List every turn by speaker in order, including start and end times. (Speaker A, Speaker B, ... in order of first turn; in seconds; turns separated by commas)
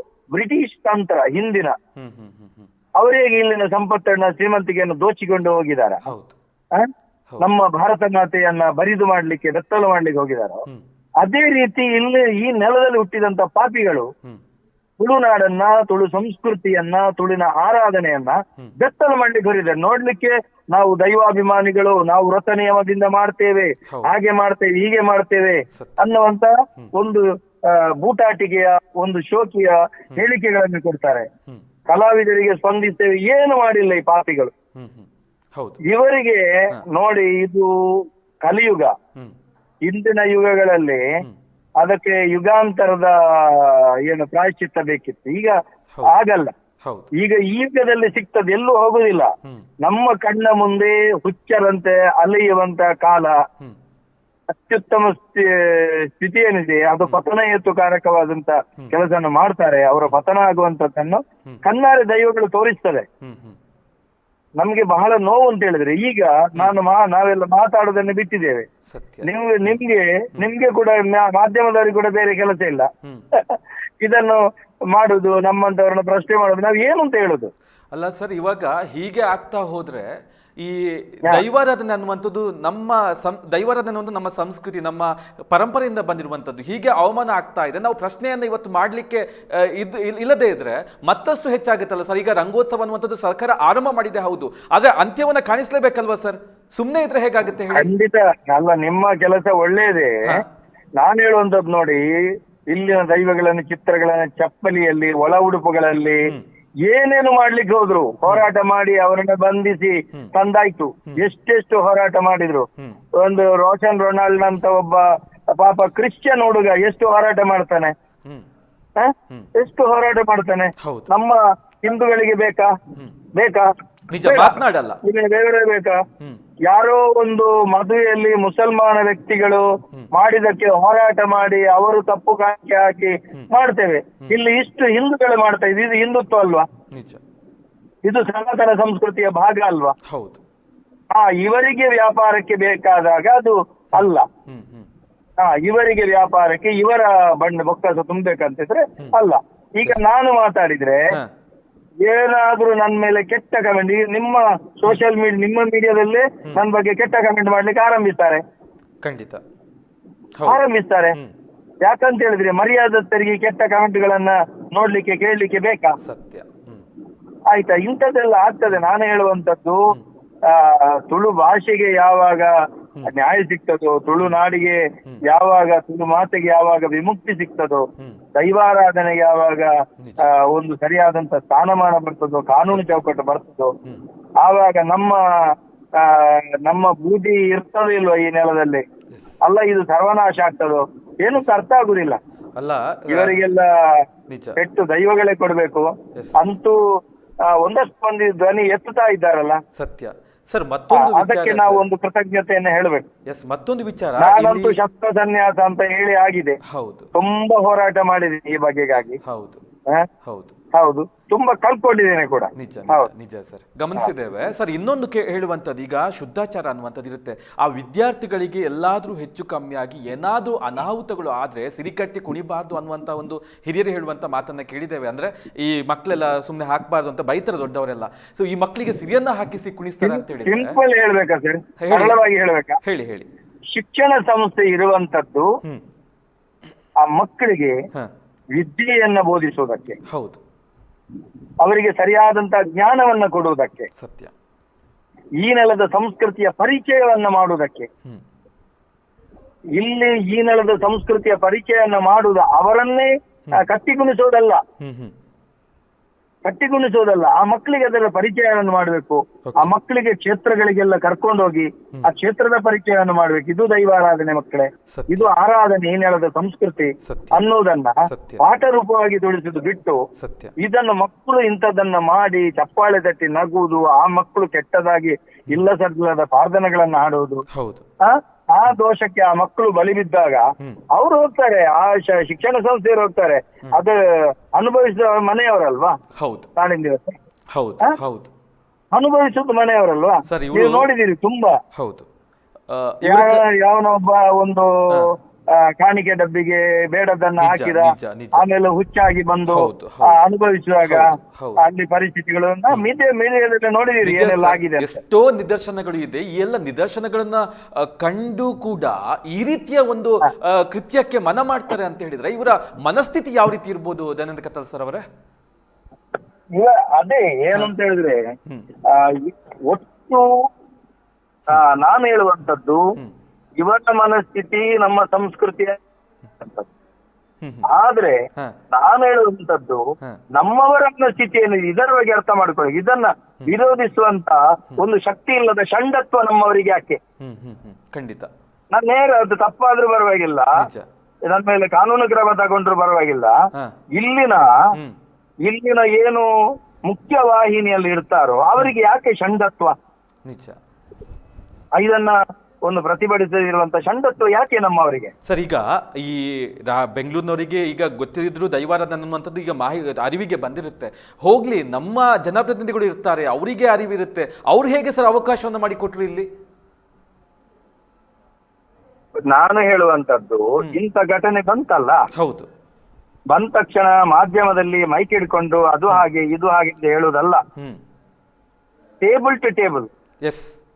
Speaker A: 0.3-1.8, Speaker B: 2.0-2.7, Speaker A: 3.0-6.1, Speaker B: 6.0-6.4, Speaker A: 7.4-10.6, Speaker A: 11.2-14.1, Speaker A: 15.0-31.3, Speaker B: 23.9-24.1, Speaker B: 25.7-26.1, Speaker A: 31.9-34.5, Speaker B: 34.8-35.8, Speaker A: 35.9-37.7, Speaker A: 38.5-38.9, Speaker A: 39.9-41.0, Speaker A: 41.8-46.5, Speaker B: 45.9-46.2, Speaker B: 46.8-47.1, Speaker A: 47.2-49.3, Speaker B: 49.4-49.7, Speaker A: 49.8-53.4, Speaker A: 54.6-63.1, Speaker B: 63.2-63.6, Speaker A: 64.6-68.7, Speaker B: 68.9-69.8, Speaker A: 69.2-72.9, Speaker A: 73.4-74.4, Speaker A: 74.9-77.5, Speaker B: 77.9-80.1, Speaker B: 80.6-97.9, Speaker A: 97.7-100.4, Speaker A: 101.0-102.0, Speaker A: 102.7-106.2, Speaker A: 106.9-112.7, Speaker A: 113.2-117.9, Speaker A: 119.0-122.7, Speaker B: 120.8-121.1, Speaker A: 123.4-123.7, Speaker B: 124.1-125.0, Speaker A: 124.2-126.0, Speaker A: 126.7-136.7, Speaker B: 136.9-137.2, Speaker A: 138.1-139.9, Speaker B: 140.1-140.4, Speaker A: 141.1-144.2, Speaker B: 143.9-144.9, Speaker A: 145.4-151.0, Speaker A: 152.1-158.4, Speaker B: 159.0-159.4, Speaker B: 160.4-160.6, Speaker A: 160.4-161.2, Speaker A: 161.8-166.0, Speaker B: 166.0-166.8, Speaker A: 167.5-169.9, Speaker A: 170.5-172.5, Speaker A: 173.1-183.7, Speaker B: 180.0-180.3, Speaker B: 182.6-183.0, Speaker A: 184.4-185.2, Speaker A: 186.0-188.8, Speaker B: 189.1-189.4, Speaker A: 189.4-192.2, Speaker B: 192.6-193.4, Speaker A: 193.1-194.0, Speaker B: 194.3-194.6, Speaker A: 194.6-196.8, Speaker A: 197.4-199.6, Speaker B: 199.8-201.8, Speaker A: 200.9-203.1, Speaker B: 203.3-204.8, Speaker A: 204.2-206.6, Speaker B: 206.7-207.1, Speaker A: 207.1-209.2, Speaker B: 209.2-209.6, Speaker B: 210.2-210.5, Speaker A: 210.7-213.1, Speaker B: 212.6-230.8, Speaker A: 230.0-232.8, Speaker B: 231.8-232.2, Speaker B: 232.8-233.3, Speaker A: 233.7-235.5, Speaker A: 237.0-237.7, Speaker A: 238.6-240.0, Speaker B: 240.1-240.4, Speaker A: 241.6-243.9, Speaker B: 243.9-244.3, Speaker A: 245.4-247.9, Speaker A: 249.8-254.6, Speaker B: 254.8-255.1, Speaker A: 256.4-270.0, Speaker B: 259.5-259.7, Speaker B: 264.9-265.3, Speaker B: 267.0-267.4, Speaker B: 268.1-268.4, Speaker B: 270.2-270.5, Speaker A: 270.6-277.4, Speaker B: 277.5-277.9, Speaker A: 278.0-284.0, Speaker A: 284.6-286.0, Speaker B: 286.2-286.5, Speaker A: 286.6-287.2, Speaker B: 287.5-288.3, Speaker A: 288.9-291.6, Speaker B: 290.3-290.9, Speaker B: 291.8-292.1, Speaker B: 292.7-293.4, Speaker A: 293.1-301.1, Speaker B: 297.4-298.5, Speaker B: 299.5-300.2, Speaker B: 300.9-301.7, Speaker A: 301.6-305.0, Speaker B: 304.0-315.1, Speaker A: 316.6-318.2, Speaker A: 318.9-320.3, Speaker A: 321.5-322.8, Speaker A: 323.6-325.8, Speaker A: 326.4-326.7, Speaker B: 327.4-327.7, Speaker A: 327.7-328.2, Speaker A: 328.7-329.8, Speaker A: 330.4-337.0, Speaker B: 337.2-338.3, Speaker A: 338.7-340.5, Speaker B: 340.6-340.9, Speaker A: 341.3-343.3, Speaker A: 344.0-344.5, Speaker A: 345.4-346.3, Speaker A: 346.9-349.7, Speaker B: 350.2-350.6, Speaker A: 351.8-355.1, Speaker B: 355.2-366.3, Speaker A: 369.3-372.0, Speaker B: 372.1-372.5, Speaker A: 373.3-377.4, Speaker A: 379.0-379.9, Speaker B: 380.2-380.6